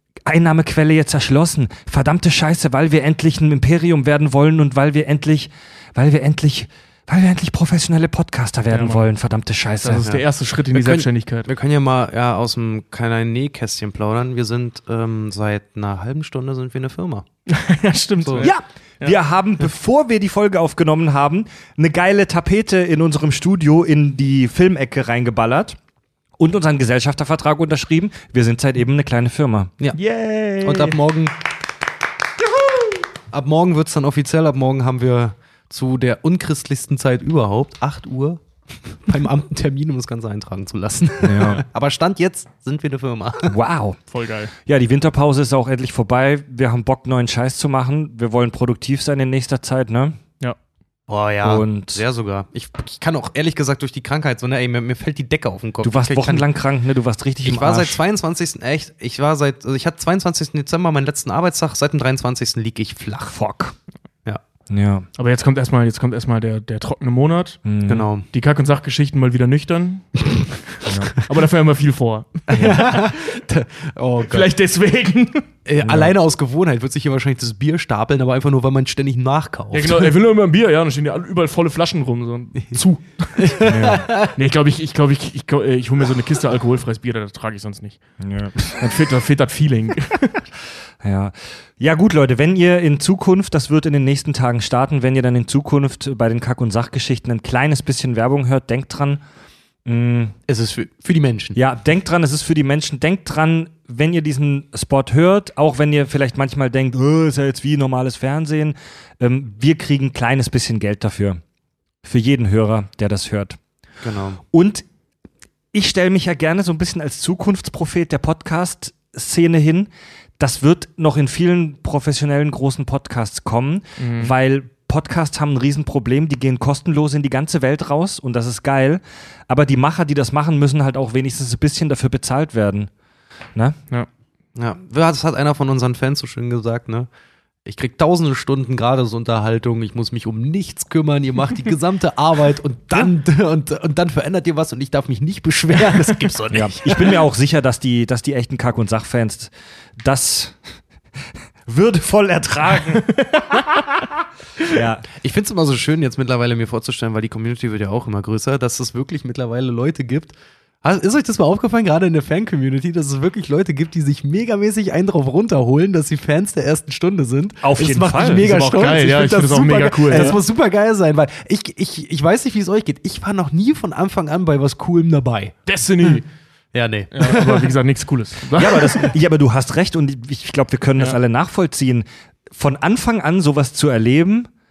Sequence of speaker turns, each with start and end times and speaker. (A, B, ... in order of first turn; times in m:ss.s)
0:00.3-0:10.1 A
0:08.7-0:09.1 B
0:09.8-0:11.5 B
0:10.0-0:17.3 C
0:17.5-0:19.2 B
0:18.2-0:18.5 C
0:18.4-0:25.8 A
0:26.4-0:29.7 A
0:29.9-0:31.0 B
0:30.6-0:31.4 C
0:33.3-0:43.6 C
0:41.2-0:41.6 A
0:43.5-0:44.0 A
0:44.1-0:44.5 B
0:44.7-0:50.2 A
0:51.1-0:56.5 C
0:51.4-0:52.0 A
0:55.8-0:58.0 A
0:57.4-1:03.4 C
1:03.3-1:03.8 A
1:04.7-1:05.1 A
1:05.2-1:07.6 B
1:07.6-1:08.1 A
1:07.9-1:08.3 C
1:08.3-1:13.0 B
1:10.9-1:11.1 A
1:12.5-1:14.5 C
1:14.3-1:15.5 B
1:15.7-1:20.1 C
1:15.8-1:16.1 A
1:19.7-1:23.6 B
1:23.4-1:24.3 C
1:23.6-1:24.1 A
1:24.3-1:28.0 B
1:28.2-1:28.8 A
1:28.7-1:30.4 B
1:31.0-1:39.2 A
1:39.9-1:40.4 A
1:40.5-1:41.6 C
1:41.6-1:51.4 A
1:52.0-1:53.6 A
1:54.0-1:54.4 C
1:54.4-1:54.8 A
1:55.7-2:12.9 A
2:04.0-2:04.4 B
2:14.6-2:17.1 C
2:17.6-2:27.2 C
2:26.5-2:30.6 A
2:31.7-2:33.6 A
2:34.7-2:35.1 A
2:35.2-2:55.6 C
2:47.6-2:48.5 A
2:48.4-2:50.4 B
2:50.1-2:50.4 A
2:55.7-2:56.2 B
2:56.7-2:57.7 C
2:57.1-2:59.2 B
2:58.5-3:04.5 A